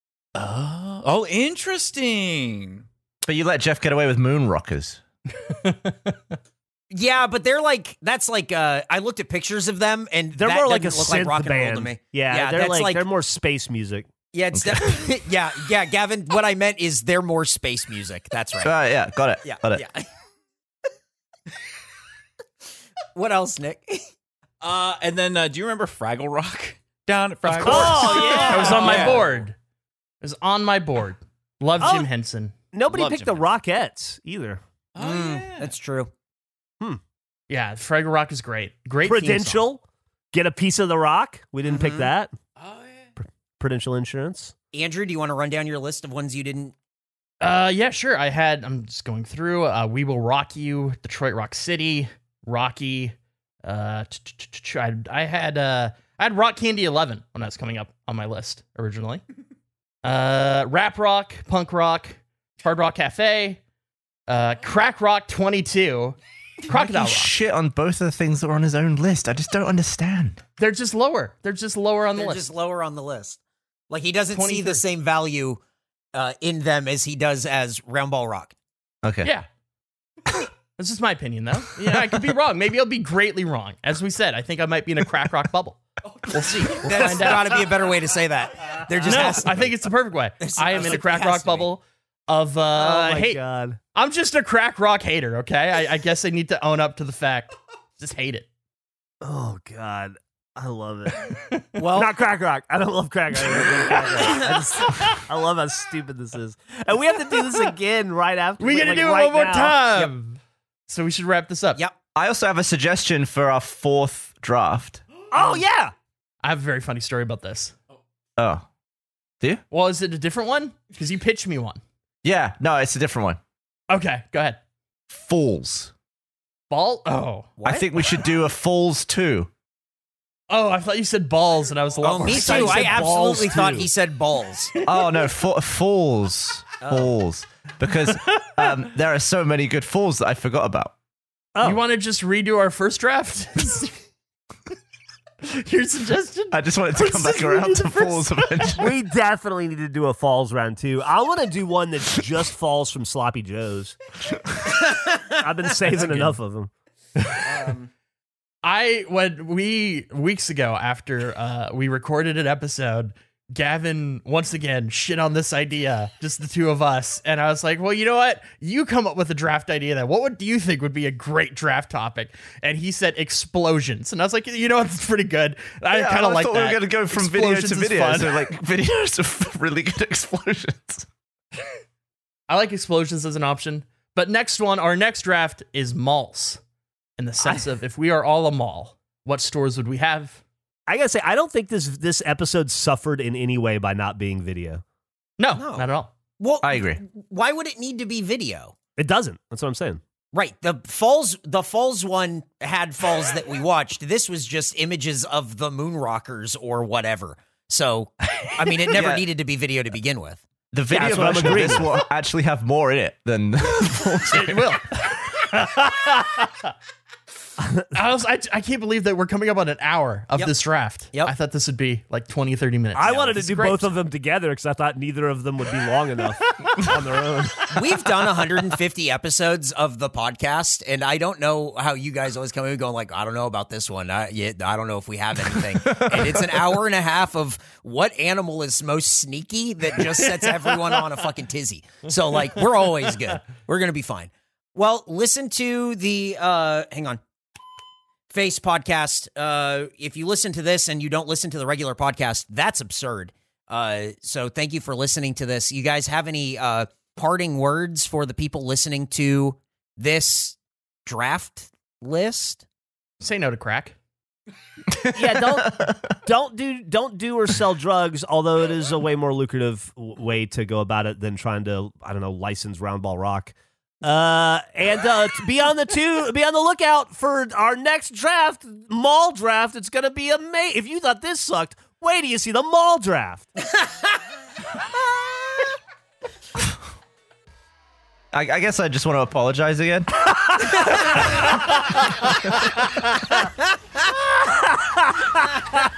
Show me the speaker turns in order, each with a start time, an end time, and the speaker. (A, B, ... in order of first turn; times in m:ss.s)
0:00.3-0:02.8 A
0:03.2-0:05.0 B
0:05.4-0:06.2 C
0:06.9-0:13.0 D
0:10.3-0:14.1 E
0:14.3-0:18.7 D
0:14.5-0:15.0 B
0:18.6-0:19.8 B
0:19.4-0:20.0 D
0:23.2-0:24.0 D
0:24.6-0:29.4 A
0:27.6-0:29.2 E
0:28.5-0:29.5 C
0:30.2-0:32.5 C
0:31.8-0:32.1 E
0:32.7-0:34.6 E
0:32.9-0:33.4 A
0:34.9-0:35.7 A
0:35.0-0:36.1 D
0:37.5-0:39.6 C
0:39.0-0:39.8 E
0:40.3-0:42.3 E
0:41.7-0:42.1 D
0:42.6-0:43.1 A
0:43.6-0:44.5 E
0:44.7-0:46.7 D
0:47.4-0:59.2 C
1:00.0-1:03.6 C
1:04.3-1:07.3 C
1:06.7-1:10.4 B
1:10.6-1:12.4 C
1:12.1-1:15.6 D
1:14.3-1:14.8 C
1:16.1-1:18.5 D
1:19.0-1:19.3 B
1:20.8-1:27.9 C
1:26.4-1:29.8 D
1:29.0-1:33.4 C
1:30.4-1:31.7 D
1:32.7-1:33.8 E
1:33.9-1:38.4 C
1:39.2-1:50.1 E
1:41.2-1:41.6 C
1:41.8-1:42.1 D
1:48.6-1:51.8 C
1:52.1-1:55.0 B
1:55.3-1:55.9 E
1:55.4-1:55.6 C
1:56.4-1:57.7 C
1:58.4-1:58.6 B
1:59.7-2:01.8 C
2:02.2-2:03.4 B
2:03.9-2:04.6 C
2:05.1-2:05.9 B
2:06.7-2:07.6 C
2:07.6-2:07.9 D
2:07.6-2:09.5 B
2:10.5-2:13.1 C
2:12.0-2:14.7 D
2:12.3-2:13.9 E
2:14.8-2:15.1 C
2:14.8-2:20.9 B
2:16.8-2:17.1 D
2:18.1-2:18.5 C
2:21.5-2:21.8 E
2:21.6-2:23.9 C
2:25.4-2:28.8 C
2:26.5-2:28.9 B
2:28.8-2:34.0 E
2:35.2-2:36.7 E
2:37.2-2:37.4 C
2:37.4-2:37.9 D
2:38.6-2:58.3 C
2:55.9-3:01.1 B
3:02.5-3:06.6 C
3:07.2-3:10.4 C
3:10.9-3:14.8 E
3:15.4-3:16.1 C
3:15.5-3:18.7 D
3:16.6-3:17.0 B
3:19.0-3:20.0 E
3:20.3-3:30.4 D
3:28.9-3:29.2 B
3:30.7-3:34.8 B
3:30.9-3:31.9 E
3:34.3-3:36.7 C
3:37.6-3:37.9 E
3:37.9-3:43.9 C
3:42.9-3:47.7 E
3:47.7-4:07.2 D
3:55.9-3:56.4 B
4:08.3-4:22.6 D
4:23.2-4:23.9 C
4:24.9-4:26.1 B
4:25.1-4:43.5 E
4:48.3-4:50.9 B
4:54.8-4:55.3 E